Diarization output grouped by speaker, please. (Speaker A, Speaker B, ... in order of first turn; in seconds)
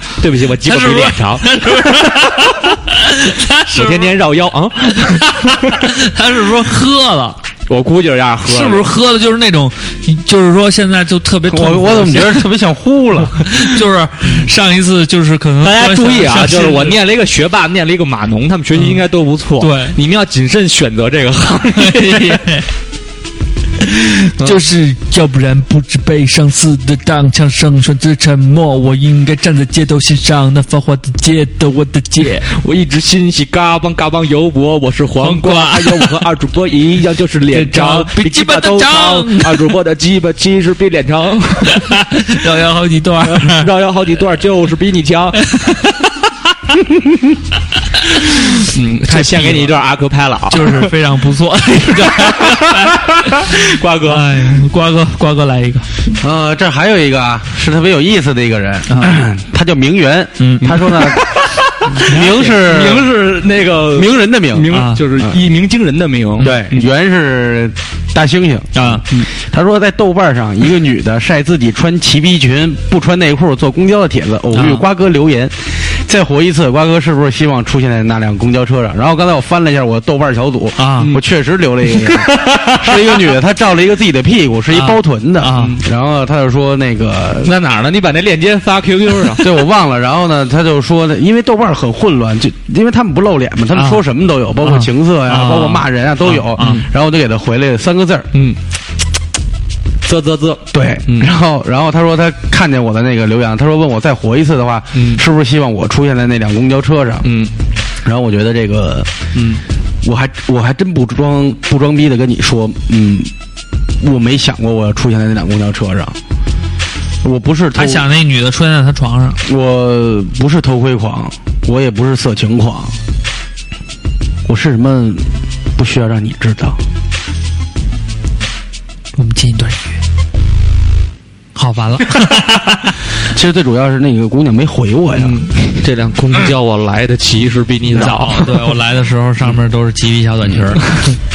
Speaker A: 0.2-2.5, 3.7-5.8, 7.7-8.9, 15.6-22.4, 32.5-42.0, 43.2-45.6, 48.1-50.9, 51.9-54.5, 60.6-66.8, 82.2-83.2, 87.4-89.5, 96.6-96.8, 100.0-101.3, 104.9-105.2, 107.2-107.5, 109.3-109.6, 135.2-138.7
Speaker B: 0.6-4.1, 5.1-7.4, 8.4-12.4, 13.5-17.0, 19.6-19.9, 21.8-22.6, 23.8-32.5, 35.2-36.2, 37.5-39.7, 41.7-43.7, 45.4-46.1, 49.1-49.7, 50.5-53.0, 54.1-55.9, 58.9-59.2, 60.4-60.7, 62.0-62.4, 64.7-65.0, 68.8-69.2, 74.5-74.8, 80.8-81.1, 84.7-85.8, 93.7-94.0, 94.6-96.8, 117.8-119.4, 129.2-129.9, 131.5-132.9, 137.9-140.8
Speaker C: 11.5-13.4, 56.2-61.2, 62.0-63.1, 63.9-65.4, 66.4-87.5, 89.4-98.3, 100.7-107.3, 108.0-109.1, 110.0-113.3, 114.0-116.2, 117.2-118.0, 119.4-123.0, 124.5-126.8, 133.2-135.5